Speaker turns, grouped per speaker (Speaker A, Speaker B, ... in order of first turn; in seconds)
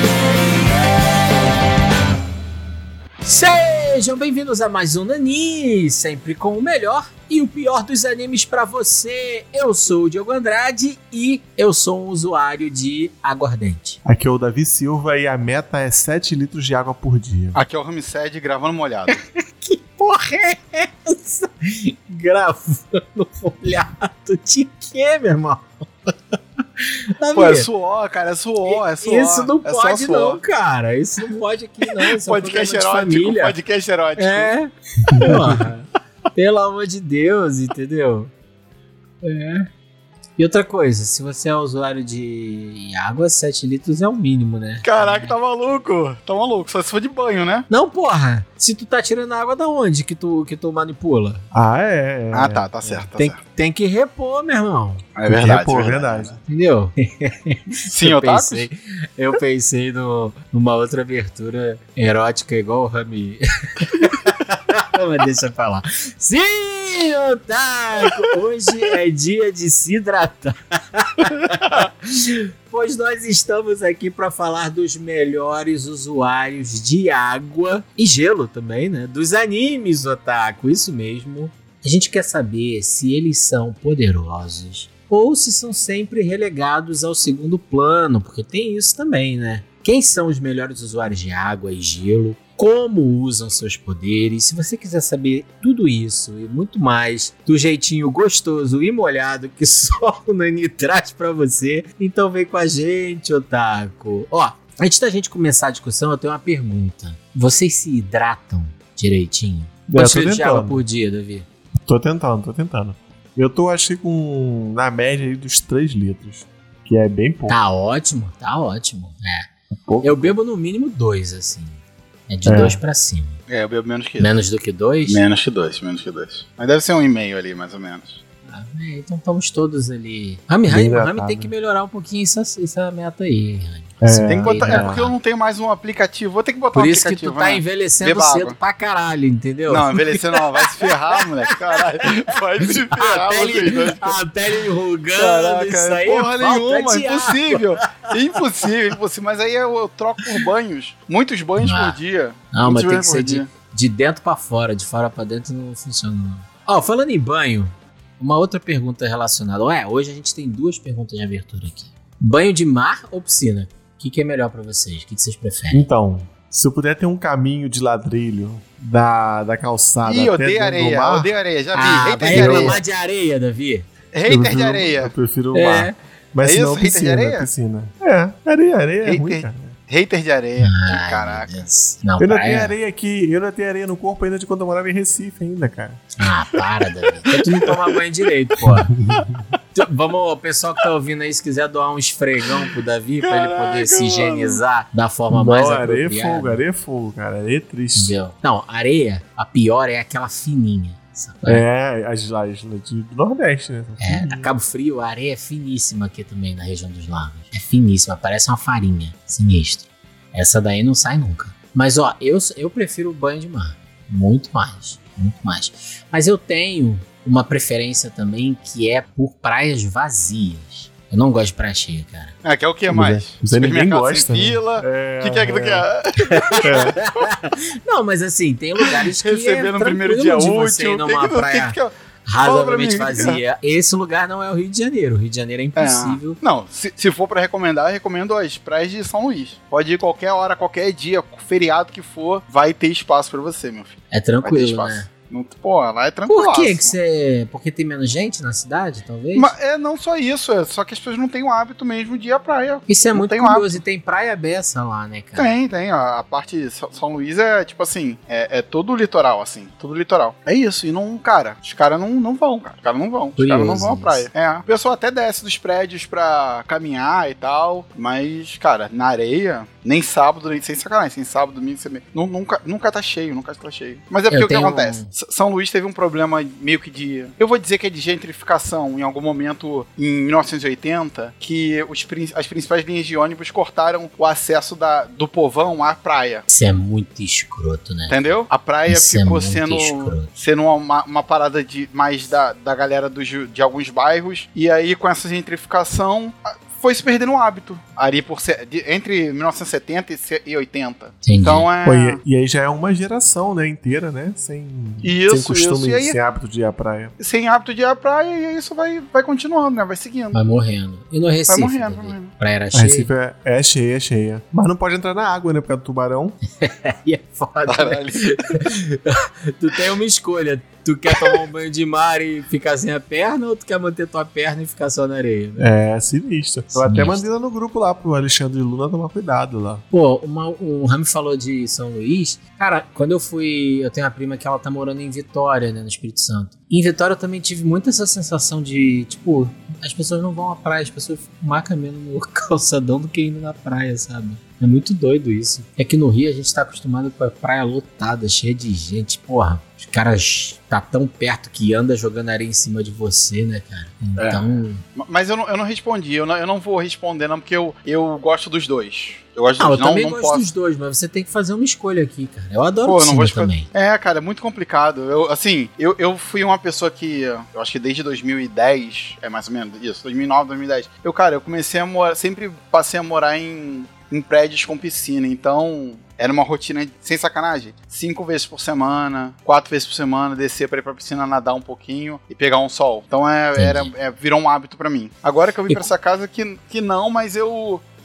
Speaker A: 3.2-14.0, 19.1-27.7, 28.6-33.5, 34.2-38.3, 39.2-39.7, 40.4-45.3, 47.7-51.5, 53.2-55.0, 56.5-111.5, 117.5-119.5, 120.0-123.4, 124.2-125.2, 128.5-135.0, 136.8-141.2, 142.6-147.7, 151.6-152.0, 152.5-165.9, 171.7-173.9, 175.5-176.0, 180.6-182.7, 186.2-188.9, 189.8-196.6, 197.9-201.6, 204.0-222.3, 226.2-236.4, 244.1-245.1, 246.3-249.5, 252.9-255.5, 263.4-264.3, 274.3-275.1, 286.5-288.1, 288.9-290.3, 301.2-301.7, 310.3-313.1, 316.6-325.7, 326.7-327.2, 329.9-354.8, 359.6-363.7, 383.6-383.9
Speaker B: 14.0-17.6, 51.5-53.0, 55.2-56.4, 109.9-110.8, 111.8-117.6, 119.7-120.3, 122.4-122.8, 130.7-131.5, 134.0-135.1, 165.7-171.3, 172.3-172.8, 174.3-179.8, 182.2-186.2, 188.9-189.4, 195.3-198.2, 201.4-204.5, 222.9-225.9, 226.6-227.0, 301.8-307.1, 312.7-316.4, 325.6-329.8
Speaker C: 17.6-19.2, 27.3-30.4, 31.8-34.5, 44.8-47.7, 52.3-53.4, 55.2-56.4, 57.9-58.7, 123.5-124.3, 125.1-128.2, 134.3-138.6, 139.7-144.2, 145.2-153.5, 170.1-172.8, 174.1-175.1, 176.4-177.5, 179.1-181.6, 193.2-194.6, 222.4-227.0, 229.0-233.4, 235.8-246.9, 249.3-253.8, 255.3-286.4, 288.1-302.2, 305.0-306.2, 307.2-310.4, 311.5-312.3, 317.6-318.3, 354.2-360.5, 362.8-387.8